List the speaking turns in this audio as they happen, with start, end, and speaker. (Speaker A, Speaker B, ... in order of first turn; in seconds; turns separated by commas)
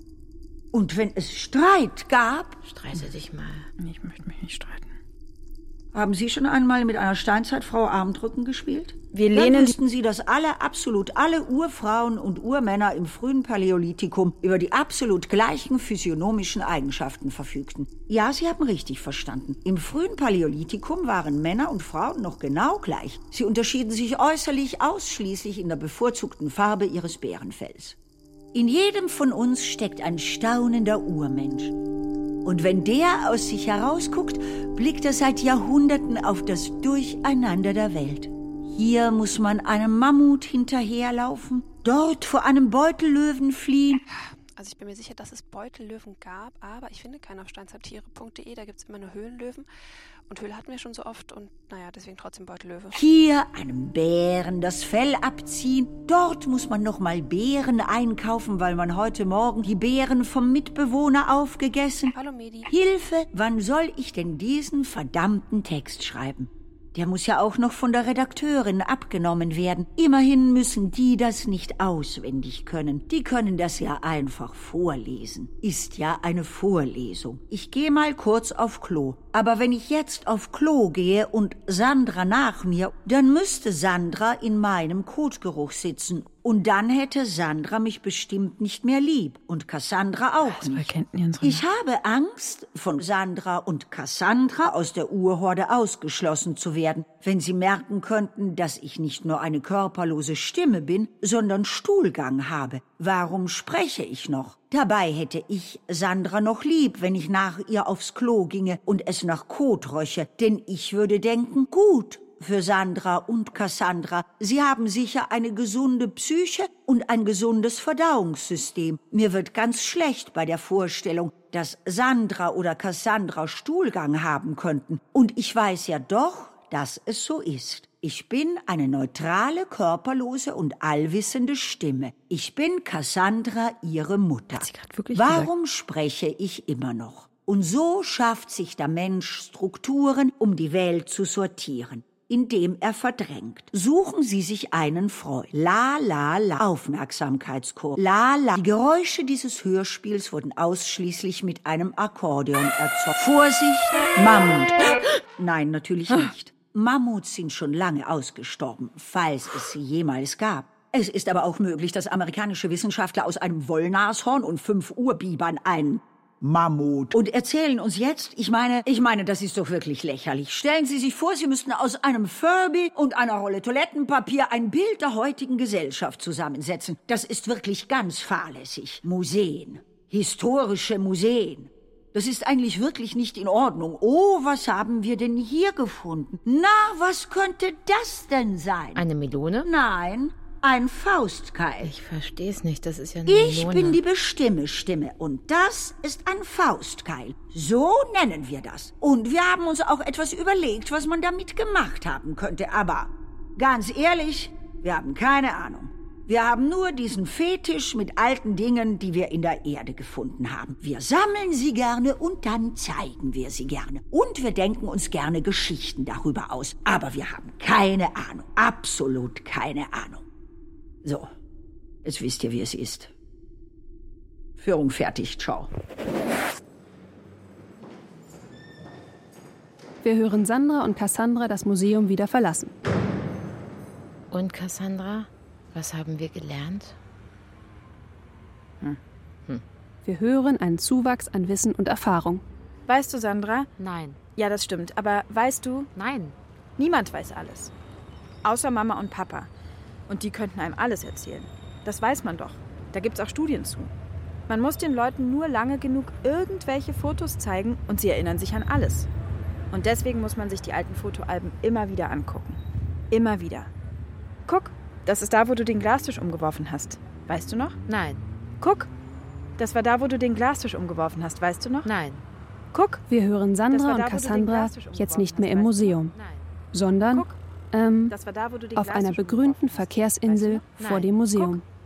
Speaker A: 0.7-2.6, Speaker B: 2.6-3.7, Speaker C: 3.8-5.0, Speaker A: 5.9-28.0, Speaker C: 9.1-9.7, Speaker A: 28.5-31.7, Speaker A: 32.4-44.0, Speaker D: 44.5-49.6, Speaker D: 50.3-53.0, Speaker A: 52.9-62.1, Speaker D: 62.1-62.7, Speaker A: 62.7-90.9, Speaker C: 90.4-91.6, Speaker A: 91.4-189.0, Speaker C: 134.5-135.5, Speaker B: 188.9-189.7, Speaker A: 189.6-191.9, Speaker B: 191.8-194.0, Speaker A: 193.3-220.2, Speaker A: 221.0-221.3, Speaker A: 222.0-223.1, Speaker A: 224.6-225.7, Speaker E: 230.0-232.7, Speaker B: 234.3-237.0, Speaker E: 240.0-242.4, Speaker C: 242.9-243.7, Speaker B: 243.8-244.2, Speaker C: 244.3-245.9, Speaker B: 245.9-246.3, Speaker C: 246.8-247.7, Speaker C: 248.4-249.5, Speaker C: 250.1-253.9, Speaker C: 254.5-259.1, Speaker C: 259.7-263.7, Speaker C: 264.4-267.8, Speaker B: 267.9-268.2, Speaker C: 268.6-268.9, Speaker C: 269.6-271.9, Speaker B: 271.8-272.2, Speaker C: 272.7-273.0, Speaker E: 273.1-276.1, Speaker C: 273.7-276.1, Speaker B: 276.1-276.4, Speaker E: 276.7-278.1, Speaker C: 277.1-277.4, Speaker C: 278.1-280.7, Speaker E: 278.7-281.6, Speaker B: 280.8-281.1